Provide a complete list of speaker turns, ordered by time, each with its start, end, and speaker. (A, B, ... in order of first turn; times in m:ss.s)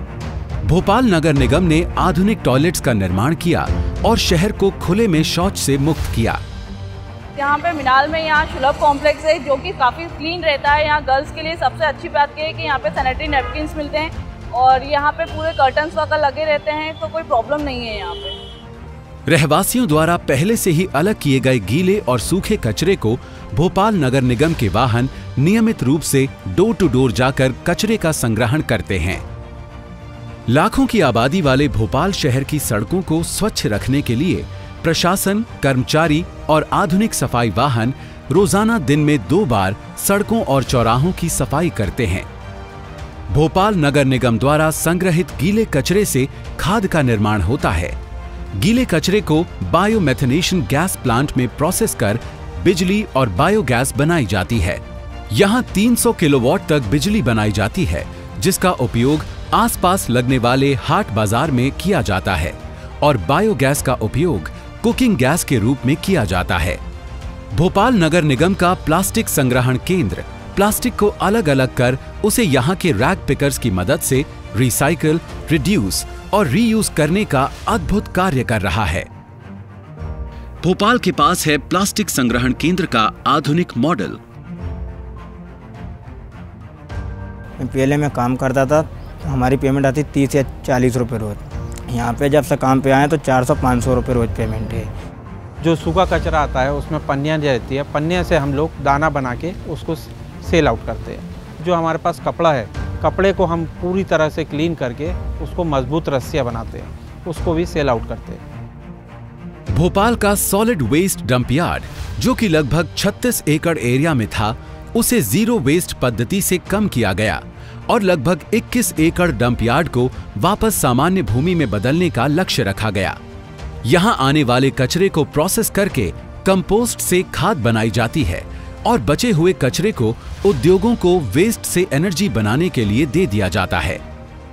0:00.6-0:06.4 A
0:07.4-0:18.4 B
0:19.3-0:29.2 A
0:30.5-0:42.3 A
0:43.3-0:48.0 A
0:48.5-1:06.8 A
1:07.5-1:19.1 A
1:20.6-1:24.2 A
1:27.6-1:34.9 C
1:35.6-1:48.4 D
1:49.7-2:03.2 A
2:03.8-2:14.0 A